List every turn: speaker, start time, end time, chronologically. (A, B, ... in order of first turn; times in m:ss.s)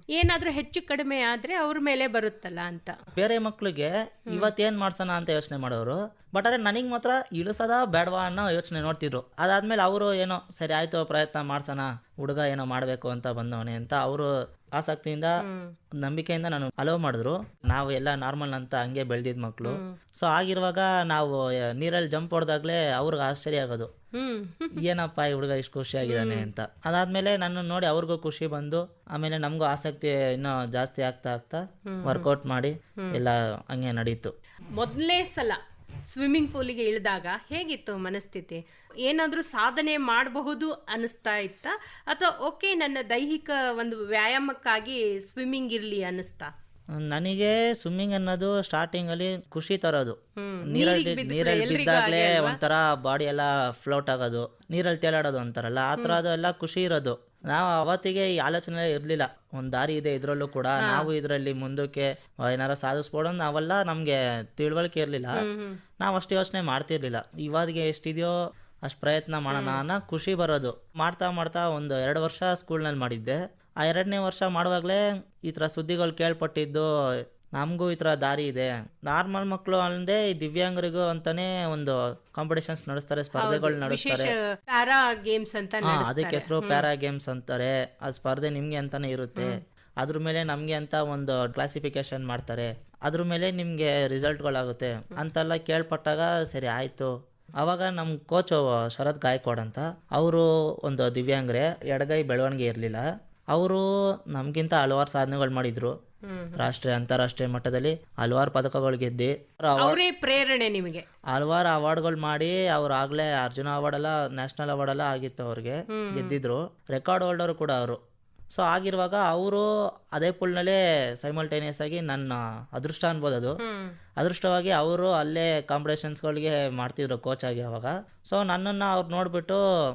0:00.1-0:03.0 A
0:03.2-0:15.4 B
0:15.4-0:15.7 A
0:16.0-0:23.9 B
0:19.6-0:19.9 A
0:24.1-0:24.8 A
0:24.7-0:34.3 B
0:26.0-0:26.5 A
0:31.9-0:32.3 A
0:34.8-0:46.5 A
0:47.0-1:05.4 B
0:50.4-0:52.6 A
1:00.8-1:01.1 A
1:05.4-1:05.8 A
1:06.0-1:16.9 B
1:09.5-1:09.8 A
1:17.5-1:24.3 B
1:23.4-1:26.8 A
1:25.8-1:45.9 B
1:29.4-1:29.6 A
1:46.2-1:46.6 A
1:46.6-1:50.0 B
1:49.7-1:51.0 A
1:51.3-1:58.0 B
1:55.9-1:56.4 A
1:58.5-2:03.6 B
2:03.6-2:03.9 A
2:04.2-2:09.6 B